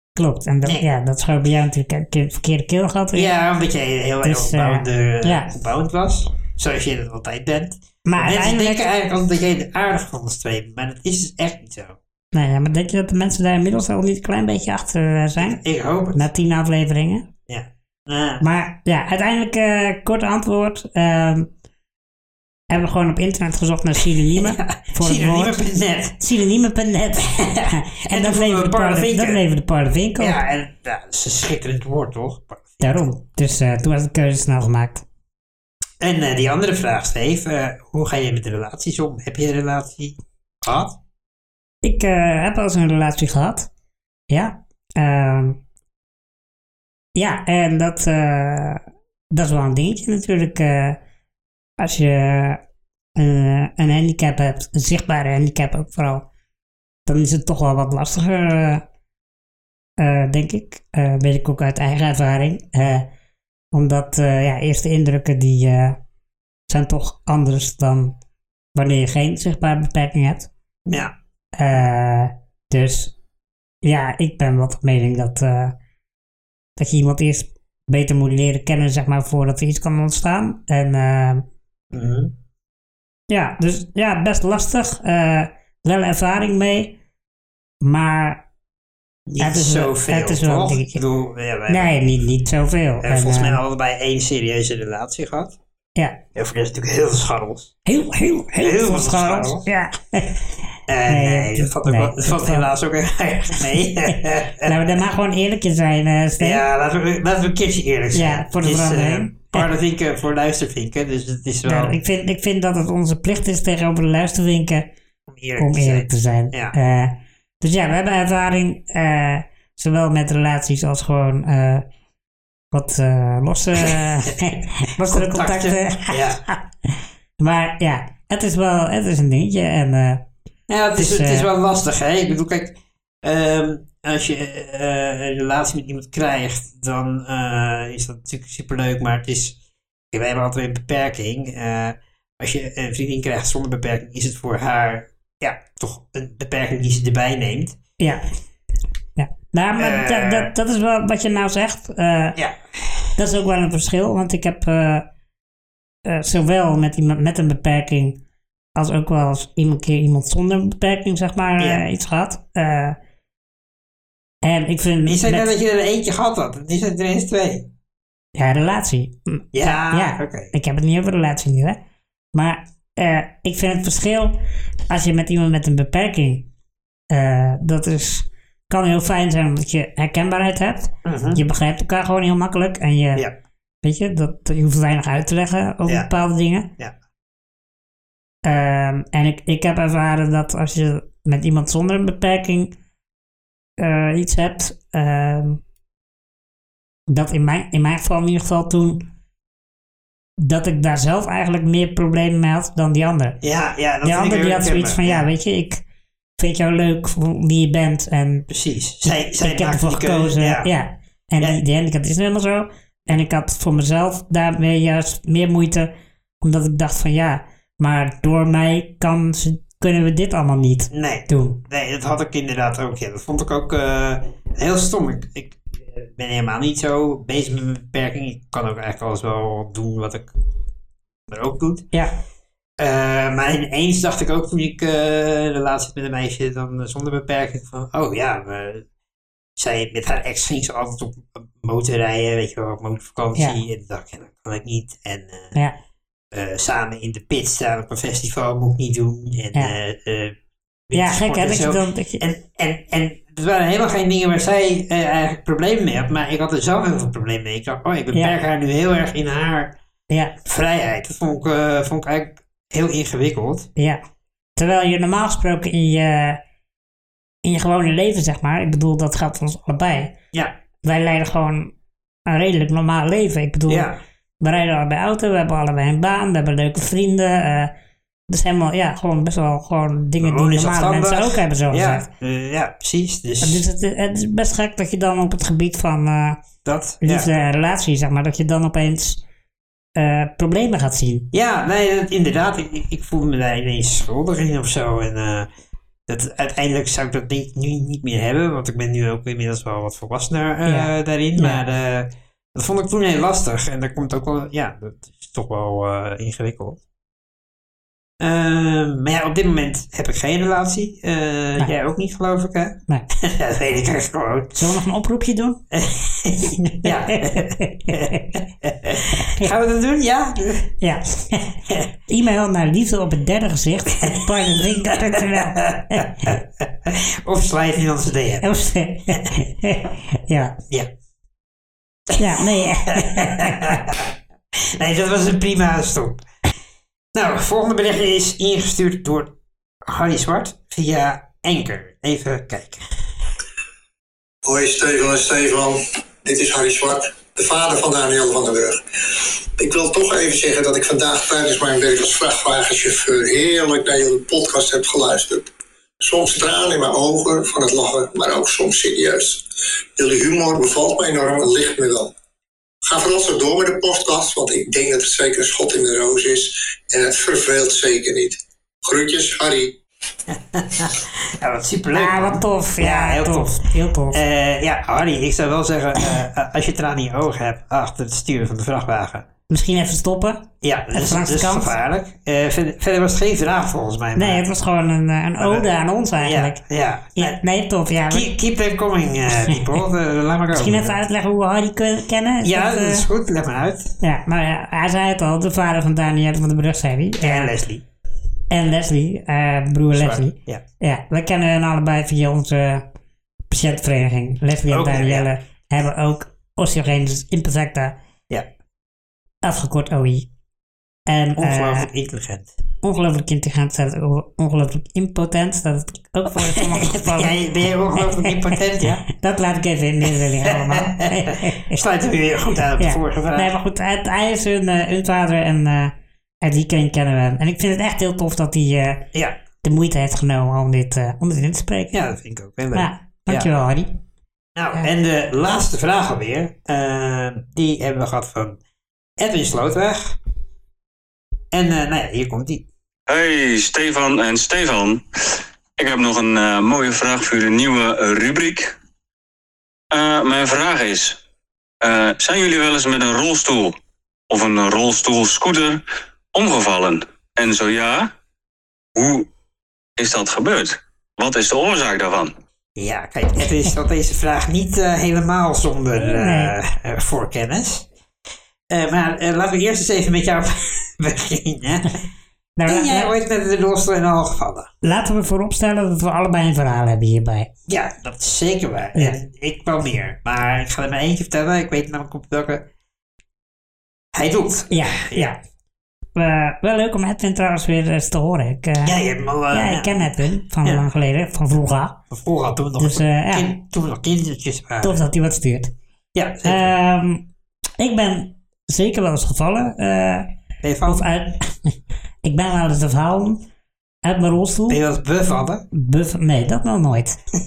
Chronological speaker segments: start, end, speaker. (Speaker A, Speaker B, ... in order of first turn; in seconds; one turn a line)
Speaker A: 0.2-3.3
Speaker B: 3.1-12.0
Speaker A: 4.2-5.5
Speaker A: 8.1-8.8
Speaker A: 12.3-15.6
Speaker B: 15.4-16.2
Speaker A: 16.1-17.3
Speaker B: 17.5-18.4
Speaker A: 18.4-21.5
Speaker A: 22.7-25.6
Speaker B: 24.4-26.2
Speaker A: 26.2-30.4
Speaker B: 27.2-29.4
Speaker B: 30.2-33.1
Speaker A: 32.8-35.0
Speaker B: 36.0-41.0
Speaker A: 41.8-43.7
Speaker A: 44.3-45.6
Speaker A: 47.1-51.0
Speaker A: 51.8-52.6
Speaker A: 53.2-56.3
Speaker A: 57.1-58.8
Speaker A: 60.0-63.1
Speaker A: 63.7-66.0
Speaker A: 66.7-68.2
Speaker A: 68.8-70.5
Speaker B: 70.9-71.1
Speaker A: 71.6-73.1
Speaker A: 73.8-75.8
Speaker A: 76.8-81.5
Speaker B: 81.9-82.3
Speaker A: 83.3-87.0
Speaker A: 87.8-88.4
Speaker B: 89.3-92.0
Speaker A: 89.4-91.0
Speaker A: 91.7-93.6
Speaker B: 93.0-95.6
Speaker A: 96.0-96.2
Speaker B: 96.3-97.8
Speaker A: 97.9-100.4
Speaker B: 98.6-99.7
Speaker B: 100.9-105.0
Speaker A: 101.1-102.7
Speaker A: 103.6-106.6
Speaker B: 106.4-112.0
Speaker A: 108.1-109.7
Speaker A: 111.6-114.9
Speaker B: 115.3-116.8
Speaker A: 115.6-121.9
Speaker A: 122.7-130.2
Speaker B: 123.8-126.4
Speaker B: 130.7-139.6
Speaker A: 130.9-131.5
Speaker B: 140.1-147.8
Speaker A: 149.2-152.4
Speaker B: 149.8-150.5
Speaker B: 152.4-153.1
Speaker A: 153.2-155.1
Speaker A: 156.1-158.2
Speaker A: 158.8-163.0
Speaker B: 161.6-161.8
Speaker A: 164.4-165.5
Speaker B: 165.0-167.7
Speaker A: 168.3-171.8
Speaker B: 169.5-170.5
Speaker A: 172.3-174.4
Speaker A: 174.9-176.5
Speaker A: 177.1-183.2
Speaker B: 181.1-181.4
Speaker A: 183.8-186.7
Speaker A: 188.4-192.7
Speaker A: 193.8-195.6
Speaker A: 197.1-199.1
Speaker A: 200.4-203.4
Speaker B: 203.4-205.3
Speaker A: 204.0-205.8
Speaker A: 206.4-208.5
Speaker B: 208.5-210.7
Speaker A: 209.4-215.9
Speaker A: 216.4-221.6
Speaker B: 220.9-230.3
Speaker B: 231.3-231.9
Speaker B: 232.8-238.9
Speaker B: 239.6-245.6
Speaker B: 246.3-250.4
Speaker B: 250.9-259.8
Speaker A: 250.9-252.2
Speaker B: 260.4-263.7
Speaker A: 264.6-266.4
Speaker A: 267.4-270.1
Speaker A: 270.8-271.7
Speaker A: 272.3-273.9
Speaker B: 273.7-274.0
Speaker A: 274.4-277.7
Speaker A: 278.3-282.1
Speaker B: 280.2-283.6
Speaker A: 283.4-286.4
Speaker B: 286.6-287.3
Speaker A: 287.0-289.2
Speaker A: 290.0-291.3
Speaker B: 291.3-295.5
Speaker B: 296.1-306.8
Speaker A: 300.7-301.6
Speaker B: 308.2-314.6
Speaker A: 314.6-315.6
Speaker B: 315.7-320.7
Speaker A: 316.8-318.2
Speaker A: 320.8-321.5
Speaker A: 322.1-326.4
Speaker B: 324.0-328.5
Speaker A: 328.4-330.6
Speaker B: 329.1-329.3
Speaker B: 332.1-336.3
Speaker A: 332.2-333.8
Speaker B: 337.1-342.8
Speaker C: 344.4-355.5
Speaker C: 356.0-359.4
Speaker C: 360.0-362.1
Speaker C: 362.9-369.8
Speaker B: 370.3-379.3
Speaker A: 371.9-374.2
Speaker A: 379.5-381.7
Speaker B: 380.6-384.4
Speaker A: 384.2-386.6
Speaker B: 385.4-385.7
Speaker B: 386.2-387.4
Speaker A: 387.2-388.3
Speaker B: 388.1-391.0
Speaker A: 389.3-389.7
Speaker A: 390.5-393.1
Speaker B: 392.4-394.0
Speaker A: 394.0-397.5
Speaker B: 397.2-397.8
Speaker A: 398.5-402.9
Speaker B: 399.9-400.6
Speaker A: 403.5-408.0
Speaker B: 404.7-405.3
Speaker A: 409.4-410.3
Speaker A: 411.1-411.9
Speaker B: 411.4-412.5
Speaker A: 412.8-417.4
Speaker B: 416.4-419.0
Speaker A: 418.0-421.8
Speaker B: 420.4-423.5
Speaker A: 422.8-429.1
Speaker A: 429.6-431.9
Speaker B: 431.9-433.5
Speaker A: 432.7-434.0
Speaker B: 434.6-438.6
Speaker B: 439.2-440.2
Speaker B: 441.5-442.7
Speaker D: 443.1-445.0
Speaker D: 445.8-448.7
Speaker D: 449.9-451.2
Speaker D: 451.8-453.8
Speaker D: 454.3-455.8
Speaker D: 456.3-458.1
Speaker D: 458.9-459.3
Speaker D: 460.0-462.3
Speaker B: 462.8-467.9
Speaker A: 466.0-466.5
Speaker B: 468.7-472.0
Speaker A: 472.6-473.1
Speaker B: 472.7-474.7
Speaker A: 474.8-477.5
Speaker B: 477.7-482.7
Speaker B: 484.1-485.3
Speaker A: 484.7-485.4
Speaker A: 486.2-489.0
Speaker B: 488.8-490.8
Speaker A: 489.5-492.0
Speaker B: 492.1-495.0
Speaker A: 492.8-493.5
Speaker A: 494.8-495.7
Speaker B: 496.1-496.7
Speaker A: 496.5-497.3
Speaker A: 497.8-500.3
Speaker B: 500.6-501.1
Speaker A: 500.9-501.7
Speaker A: 502.2-503.4
Speaker A: 504.0-504.8
Speaker B: 504.7-505.7
Speaker A: 505.7-507.2